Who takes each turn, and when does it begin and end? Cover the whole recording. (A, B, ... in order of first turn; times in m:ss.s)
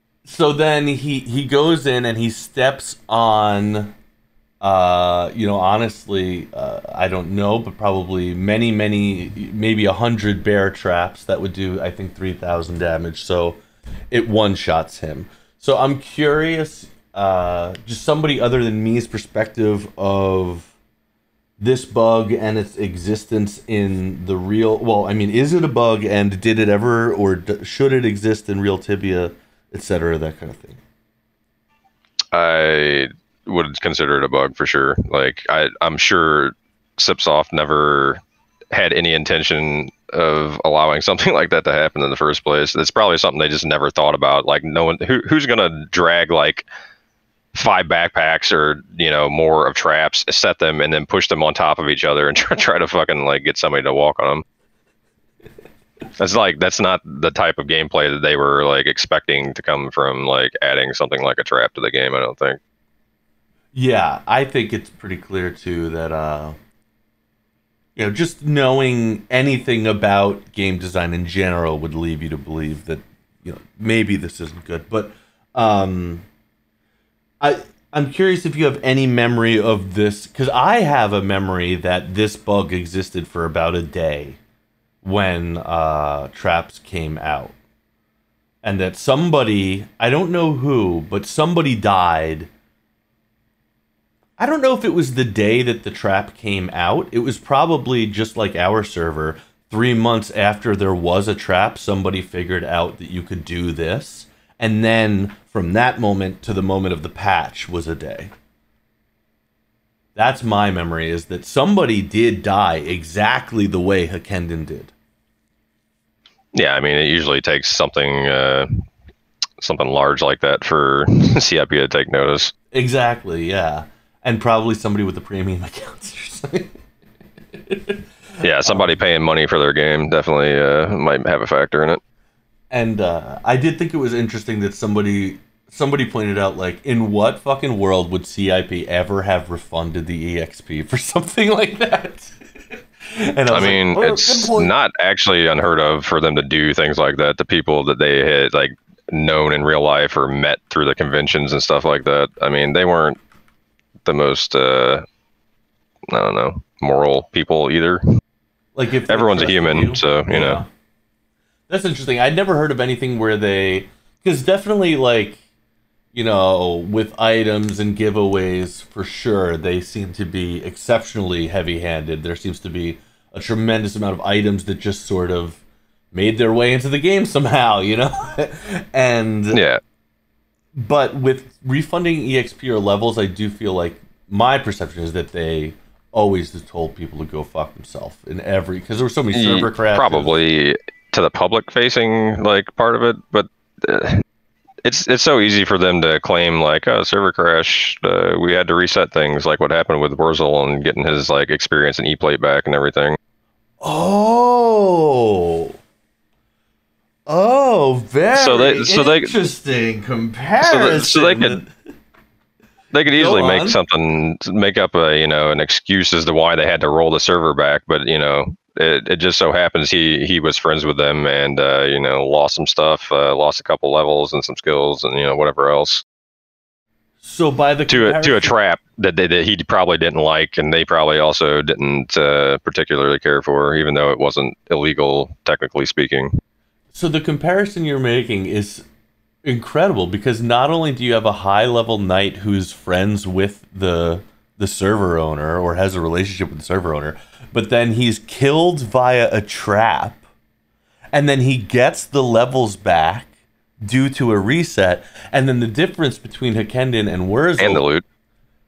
0:00.2-0:03.9 A
0:04.6-0:13.6 A
0:14.1-0:20.7 A
0:21.6-0:30.8 A
0:32.3-0:38.2 B
0:38.7-0:46.7 B
0:47.5-0:54.4 B
0:56.2-1:02.6 B
1:03.7-1:06.6 A
1:08.0-1:16.3 A
1:17.4-1:24.4 A
1:25.0-1:27.5 A
1:28.6-1:32.5 A
1:34.4-1:48.3 A
1:50.2-1:54.9 A
1:56.5-1:58.8 B
1:59.6-2:02.5 B
2:02.7-2:06.8 A
2:07.6-2:09.0 A
2:08.4-2:12.0 B
2:12.7-2:22.3 A
2:23.1-2:24.7 A
2:23.5-2:33.2 B
2:34.0-2:35.0 B
2:36.1-2:38.0 B
2:38.7-2:40.7 A
2:39.1-2:40.6 B
2:41.7-2:45.4 A
2:46.1-2:55.6 A
2:56.1-2:59.6 A
2:59.5-2:59.8 B
3:00.8-3:10.4 A
3:09.3-3:14.2 B
3:14.8-3:23.2 B
3:23.8-3:25.8 A
3:27.3-3:31.7 A
3:28.3-3:29.3 B
3:30.6-3:31.6 B
3:32.9-3:46.0 B
3:33.0-3:33.8 A
3:47.2-3:48.5 A
3:47.9-3:56.3 B
3:56.9-3:58.8 A
3:59.4-4:10.2 A
4:11.1-4:17.8 A
4:17.6-4:18.0 B